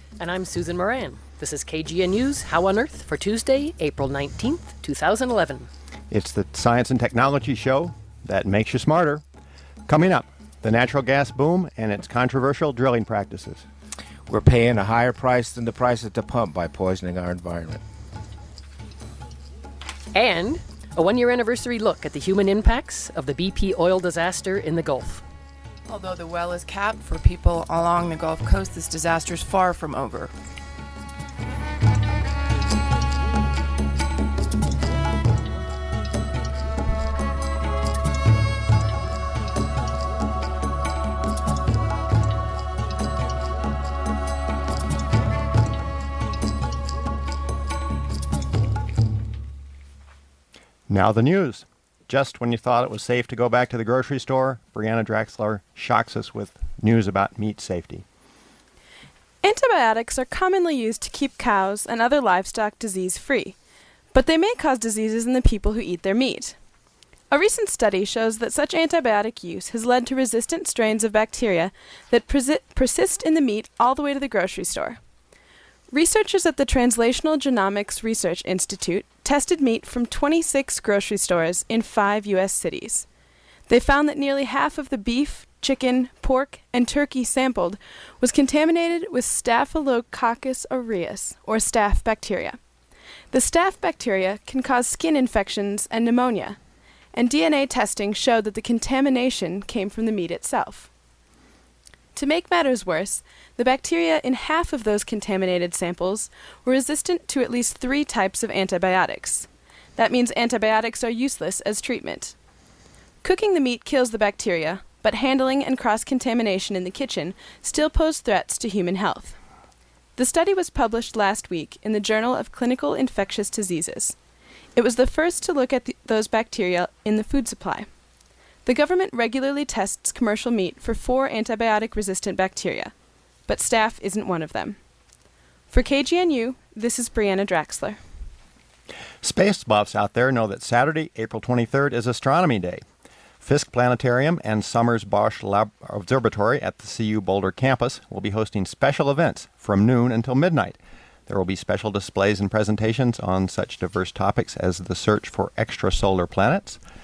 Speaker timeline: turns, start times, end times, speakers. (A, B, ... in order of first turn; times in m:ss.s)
0:00.2-0:05.7 A
0:06.1-0:09.2 B
0:09.9-0:13.6 B
0:14.3-0:17.8 C
0:20.1-0:25.2 A
0:25.9-0:30.3 D
0:50.9-0:58.0 B
0:59.4-1:03.6 E
1:04.1-1:06.6 E
1:07.3-1:15.0 E
1:15.9-1:23.1 E
1:23.7-1:32.6 E
1:33.3-1:36.6 E
1:37.1-1:40.9 E
1:42.1-1:52.4 E
1:53.2-1:59.4 E
2:00.2-2:04.2 E
2:04.8-2:07.9 E
2:08.6-2:12.9 E
2:13.5-2:14.8 E
2:15.7-2:18.0 E
2:19.2-2:22.8 B
2:23.4-2:36.8 B